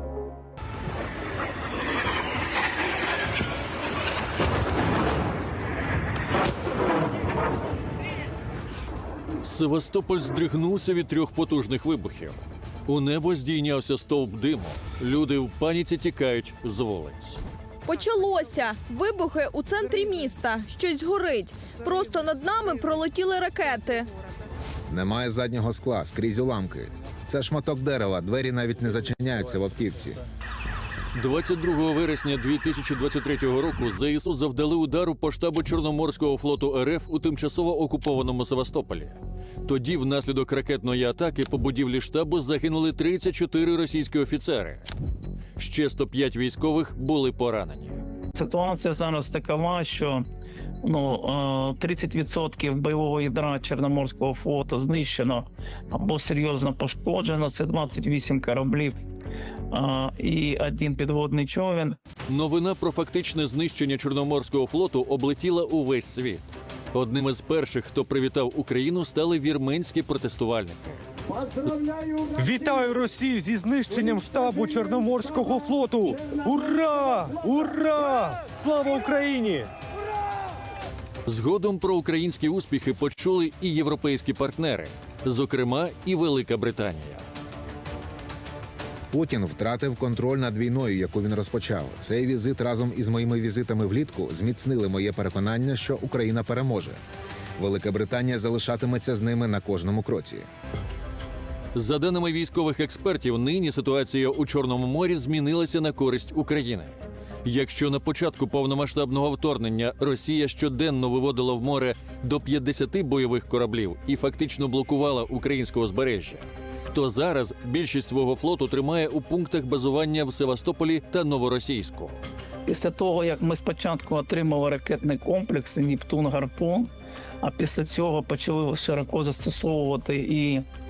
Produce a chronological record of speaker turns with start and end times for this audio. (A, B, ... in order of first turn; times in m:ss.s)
0:09.4-0:17.4 A
0:17.8-0:24.1 B
0:24.9-0:30.2 C
0:31.1-0:44.9 A
0:45.6-0:48.0 A
0:48.3-0:50.2 D
0:50.8-0:58.9 D
0:59.7-1:02.0 D
1:02.3-1:10.8 A
1:12.4-1:19.7 E
1:21.2-1:27.2 A
1:29.1-1:37.0 C
1:37.6-1:40.4 C
1:41.7-2:02.2 A
2:02.6-2:06.9 D
2:07.4-2:10.6 D